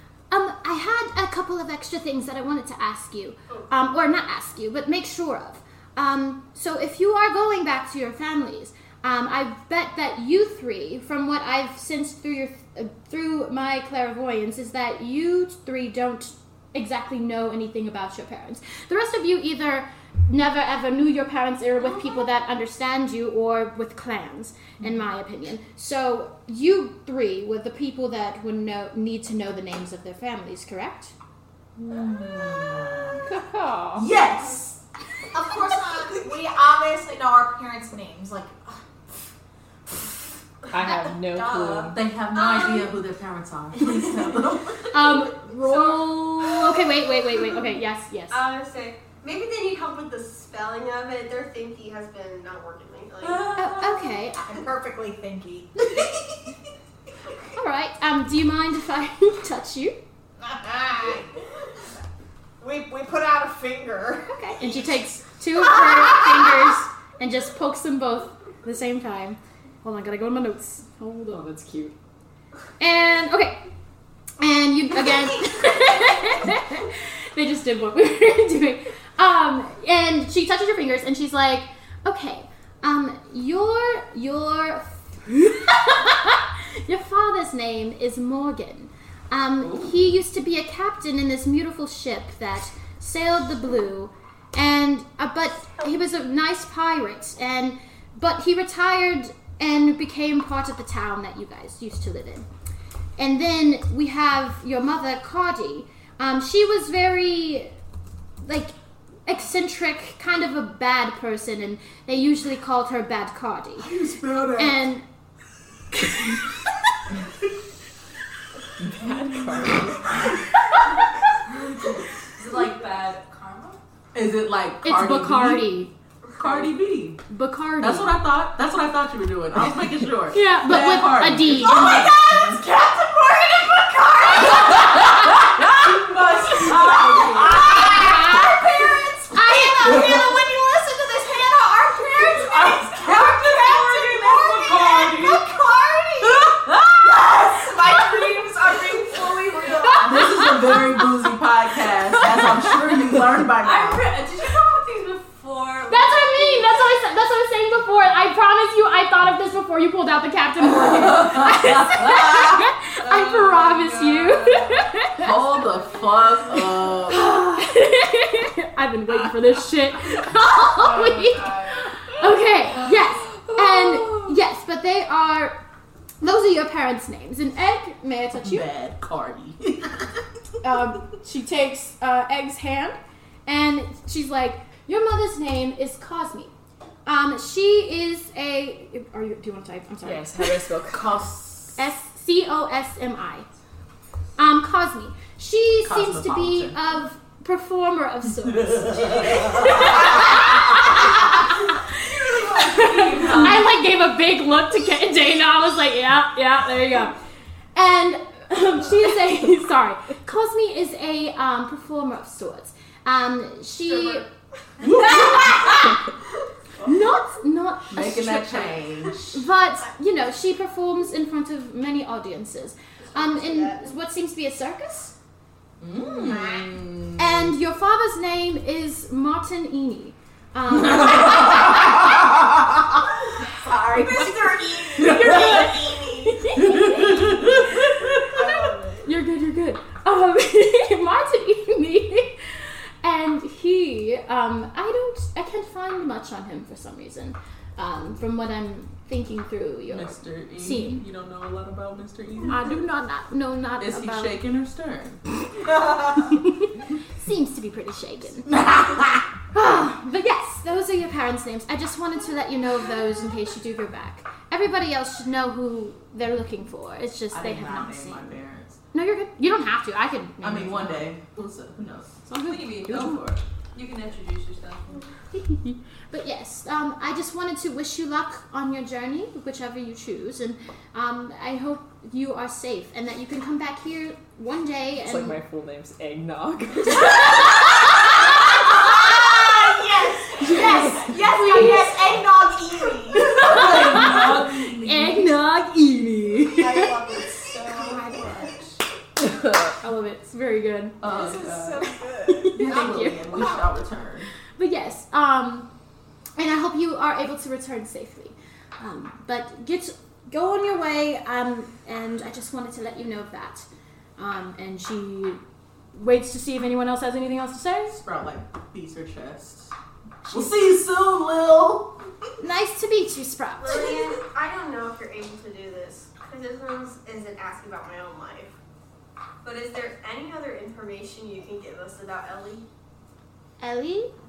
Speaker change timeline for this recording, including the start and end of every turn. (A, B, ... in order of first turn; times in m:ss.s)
0:00.3-0:31.1 A
0:31.9-0:33.2 B
0:33.2-0:34.1 C
0:34.0-0:34.8 B
0:35.3-0:38.8 D
0:40.7-0:42.0 C
0:40.9-0:41.7 D
0:41.5-0:45.2 B
0:44.9-0:48.4 A
0:45.6-0:46.8 E
0:48.3-0:53.7 E
0:53.5-0:54.6 A
0:54.4-0:56.4 D
0:55.8-0:56.1 A
0:57.5-1:00.0 A
1:00.4-1:01.3 D
1:02.6-1:04.3 D
1:04.3-1:11.5 A
1:05.8-1:06.5 D
1:11.3-1:11.9 C
1:12.8-1:13.6 A
1:14.4-1:42.5 A
1:29.6-1:30.0 B
1:43.2-1:47.7 A
1:48.4-1:48.7 A
1:49.2-1:53.9 A
1:53.8-1:54.8 B
1:54.5-1:55.0 A
1:55.9-1:56.6 A
1:58.8-2:00.3 C
1:59.0-1:59.7 B
2:02.4-2:03.8 F
2:04.1-2:05.7 B
2:04.8-2:05.9 A
2:06.4-2:07.2 B
2:07.3-2:08.2 A
2:07.8-2:12.1 B
2:10.3-2:11.9 A
2:11.6-2:15.1 D
2:14.4-2:17.8 B
2:15.8-2:26.5 D
2:16.7-2:18.0 A
2:19.3-2:20.1 A
2:19.9-2:20.2 B
2:22.3-2:25.4 B
2:26.3-2:27.6 B
2:27.0-2:30.4 D
2:29.9-2:31.0 A
2:30.0-2:34.0 B
2:33.6-2:36.7 F
2:35.9-2:45.3 A
2:40.6-2:42.7 B
2:43.0-2:44.9 F
2:45.2-2:47.2 B
2:47.0-2:55.6 A
2:50.8-2:51.8 D
2:56.2-2:58.7 A
2:58.4-3:00.1 B
3:00.6-3:06.5 A
3:07.0-3:10.6 A
3:10.0-3:11.3 C
3:10.9-3:11.6 B
3:11.8-3:13.5 A
3:14.4-3:27.2 A
3:15.8-3:16.8 B
3:18.5-3:21.1 B
3:22.4-3:23.6 B
3:22.7-3:23.5 F
3:27.7-3:34.2 A
3:33.8-3:34.3 E
3:34.8-3:36.0 B
3:34.9-3:36.0 A
3:36.8-3:45.1 A
3:37.9-3:39.4 B
3:43.1-3:43.8 E
3:45.8-3:47.5 B
3:46.3-3:46.7 D
3:47.2-3:52.2 A
3:50.9-3:51.4 B
3:53.5-3:56.5 D
3:54.0-3:54.4 A
3:54.9-3:57.6 A
3:55.0-3:55.7 B
3:56.5-3:58.1 B
3:58.2-3:59.1 D
3:59.0-4:11.0 A
4:09.9-4:12.8 B
4:12.5-4:14.4 A
4:13.8-4:15.2 B
4:16.2-4:18.5 A
4:18.4-4:19.2 B
4:19.5-4:28.4 A
4:27.3-4:28.8 B
4:28.9-4:31.1 A
4:30.4-4:32.2 B
4:32.2-4:33.2 A
4:32.4-4:33.2 F
4:32.9-4:33.4 B
4:33.7-4:35.0 F
4:35.3-4:45.4 A
4:45.0-4:48.1 C
4:46.9-4:48.2 A
4:48.8-4:49.6 A
4:48.8-4:53.6 D
4:50.3-4:52.0 A
4:53.1-4:57.0 A
4:53.4-4:55.3 B
4:56.5-4:58.6 D
4:57.7-4:58.5 A
4:59.6-5:01.0 A
5:01.0-5:01.8 B
5:01.0-5:03.6 D
5:01.8-5:03.4 A
5:02.5-5:04.3 B
5:04.6-5:05.7 A
5:06.4-5:13.6 A
5:14.2-5:15.4 A
5:15.9-5:18.0 A
5:17.9-5:19.7 B
5:20.2-5:20.5 A
5:20.3-5:21.9 B
5:22.4-5:24.0 A
5:23.6-5:28.5 E
5:29.4-5:32.7 E
5:33.6-5:34.1 A